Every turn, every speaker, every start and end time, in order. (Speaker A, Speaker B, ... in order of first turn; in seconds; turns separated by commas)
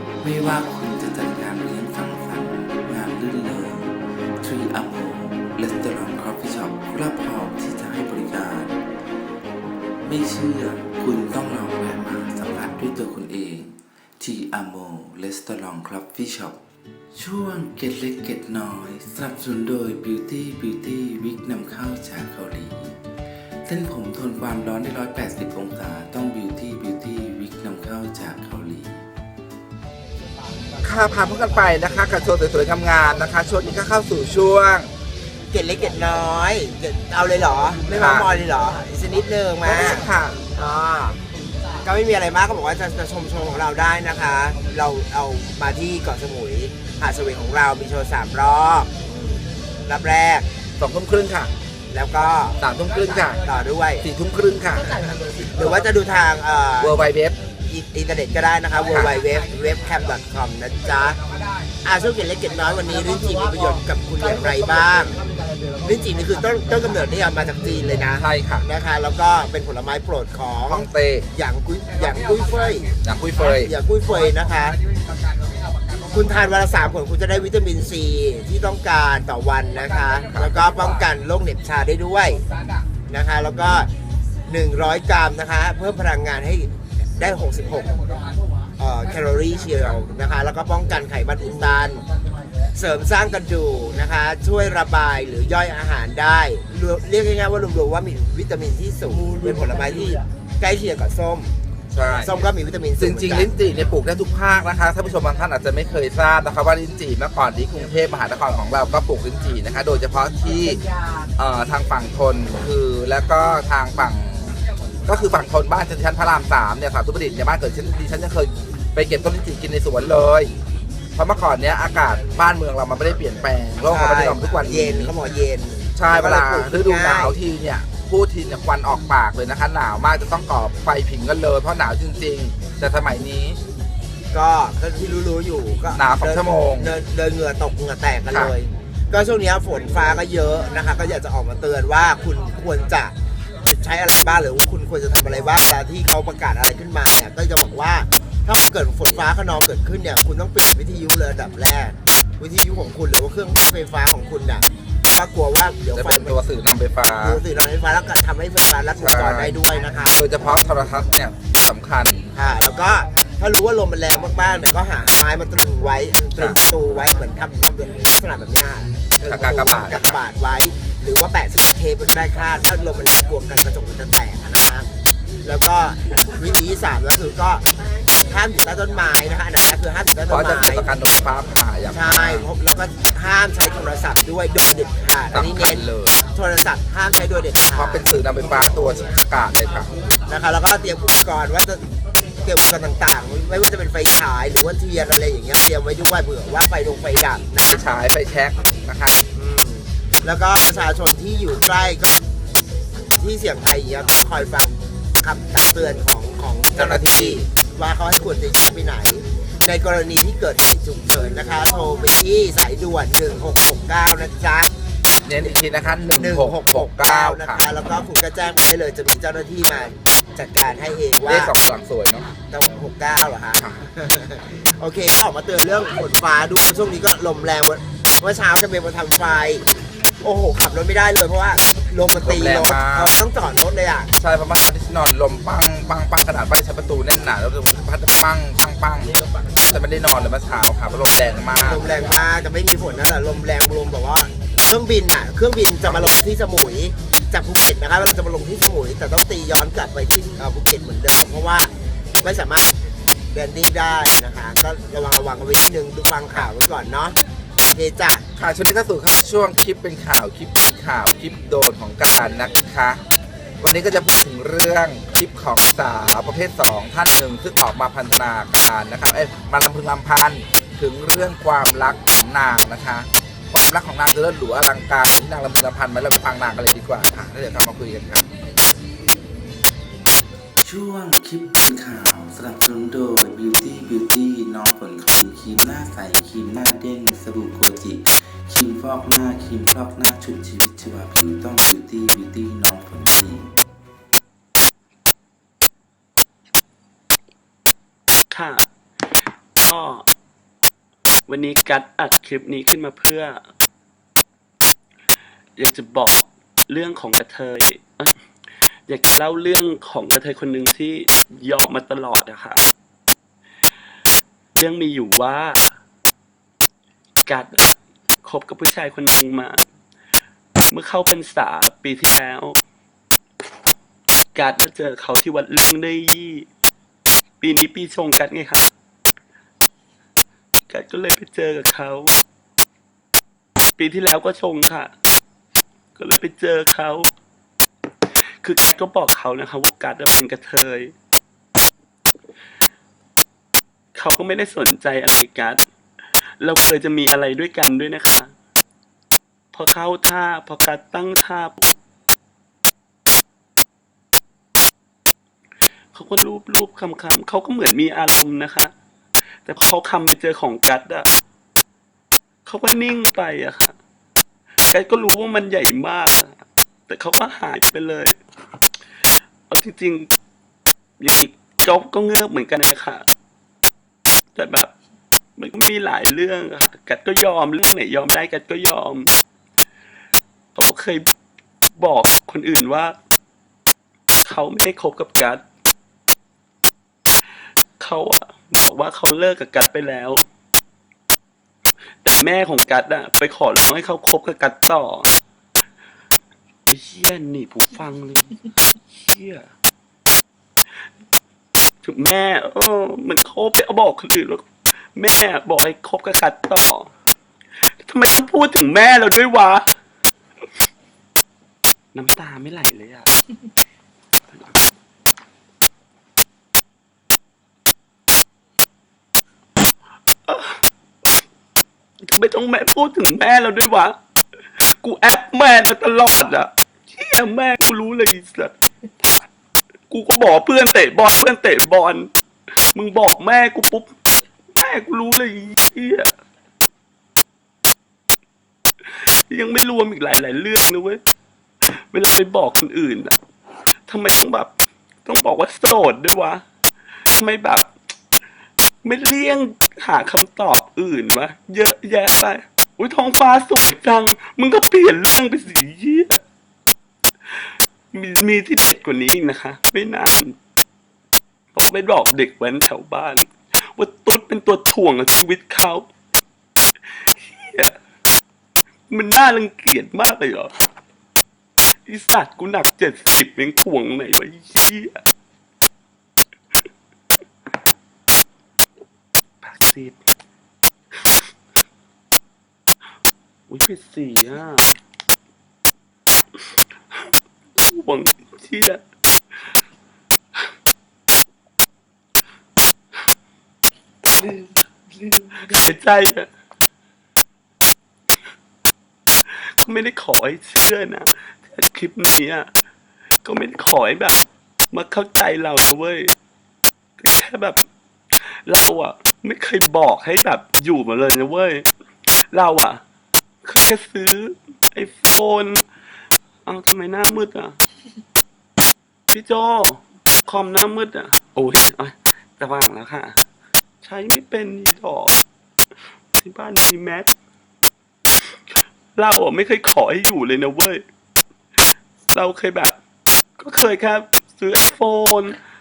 Speaker A: 0.2-8.7, Speaker A: 10.0-16.6, Speaker A: 17.1-23.0, Speaker A: 23.6-29.0, Speaker B: 30.8-34.9, Speaker C: 35.5-41.2, Speaker B: 37.9-38.3, Speaker B: 39.6-40.5, Speaker C: 41.8-50.5, Speaker B: 50.8-51.5, Speaker C: 51.9-52.6, Speaker B: 52.6-53.4, Speaker C: 53.4-54.1, Speaker B: 54.0-54.9, Speaker C: 54.8-57.0, Speaker B: 56.8-57.4, Speaker C: 57.7-61.2, Speaker B: 58.9-59.2, Speaker C: 61.8-65.2, Speaker C: 65.8-74.8, Speaker B: 68.2-68.7, Speaker B: 70.7-71.3, Speaker B: 73.0-73.7, Speaker C: 76.1-82.5, Speaker B: 80.3-80.6, Speaker C: 83.1-83.9, Speaker C: 84.5-88.1, Speaker C: 88.8-92.0, Speaker C: 92.8-101.5, Speaker B: 101.9-102.5, Speaker C: 102.1-103.5, Speaker B: 103.0-110.8, Speaker B: 111.4-120.5, Speaker B: 121.2-125.1, Speaker C: 123.9-127.4, Speaker B: 126.0-133.6, Speaker C: 134.3-143.1, Speaker B: 135.9-136.9, Speaker C: 143.6-156.4, Speaker B: 155.9-157.4, Speaker C: 157.2-160.3, Speaker B: 159.0-159.6, Speaker B: 160.1-162.3, Speaker C: 162.3-174.9, Speaker B: 169.2-170.2, Speaker C: 175.4-177.7, Speaker C: 178.3-180.9, Speaker B: 180.3-182.5, Speaker C: 181.9-189.2, Speaker B: 185.3-186.2, Speaker B: 187.7-189.9, Speaker C: 190.3-191.9, Speaker C: 192.4-197.8, Speaker B: 197.6-199.2, Speaker C: 199.3-202.2, Speaker C: 203.2-214.7, Speaker B: 206.8-207.4, Speaker B: 215.2-217.7, Speaker C: 216.2-221.5, Speaker B: 221.2-222.3, Speaker C: 222.5-229.7, Speaker B: 223.6-223.8, Speaker C: 230.2-234.1, Speaker B: 232.2-233.2, Speaker B: 234.2-241.9, Speaker C: 241.6-252.7, Speaker B: 245.8-246.2, Speaker C: 253.3-257.2, Speaker C: 257.7-258.2, Speaker B: 258.4-263.0, Speaker B: 263.6-278.3, Speaker A: 280.6-293.5, Speaker D: 298.3-298.6, Speaker D: 299.6-300.1, Speaker D: 301.3-303.4, Speaker D: 305.6-308.1, Speaker D: 308.9-312.6, Speaker D: 314.6-315.6, Speaker D: 317.3-319.6, Speaker D: 320.7-322.6, Speaker D: 324.3-326.5, Speaker D: 327.4-328.7, Speaker D: 330.7-332.1, Speaker D: 333.8-334.9, Speaker D: 336.0-337.1, Speaker D: 338.1-340.9, Speaker D: 343.9-345.6, Speaker D: 346.4-348.3, Speaker D: 349.5-351.7, Speaker D: 355.9-358.7, Speaker D: 359.5-361.1, Speaker D: 362.5-363.8, Speaker D: 364.7-368.2, Speaker D: 369.5-370.1, Speaker D: 371.0-373.1, Speaker D: 374.4-374.7, Speaker D: 375.4-379.1, Speaker D: 380.6-381.1, Speaker D: 381.8-382.9, Speaker D: 384.2-385.4, Speaker D: 387.8-390.2, Speaker D: 392.0-395.1, Speaker D: 396.7-399.5, Speaker D: 401.8-404.4, Speaker D: 404.9-406.9, Speaker D: 407.6-409.7, Speaker D: 411.9-413.1, Speaker D: 420.3-420.6, Speaker D: 422.0-424.0, Speaker D: 424.6-428.5, Speaker D: 429.9-432.1, Speaker D: 432.7-433.9, Speaker D: 434.6-436.1, Speaker D: 438.8-441.0, Speaker D: 441.6-443.1, Speaker D: 443.9-444.5, Speaker D: 445.1-446.4, Speaker D: 447.1-447.7, Speaker D: 448.8-456.2, Speaker D: 457.3-460.4, Speaker D: 461.5-465.9, Speaker D: 466.9-467.8, Speaker D: 468.9-470.5, Speaker D: 471.9-475.0, Speaker D: 479.4-480.0, Speaker D: 480.9-481.3, Speaker D: 483.5-484.8, Speaker D: 486.4-487.1, Speaker D: 487.6-488.8, Speaker D: 494.1-496.3, Speaker D: 499.3-502.5, Speaker D: 503.2-506.1, Speaker D: 507.0-507.6, Speaker D: 508.2-511.7, Speaker D: 512.3-512.8, Speaker D: 513.4-515.6, Speaker D: 516.5-517.6, Speaker D: 519.1-523.2, Speaker D: 523.8-525.2, Speaker D: 526.1-527.1, Speaker D: 528.2-530.8, Speaker D: 532.1-532.8, Speaker D: 533.4-535.4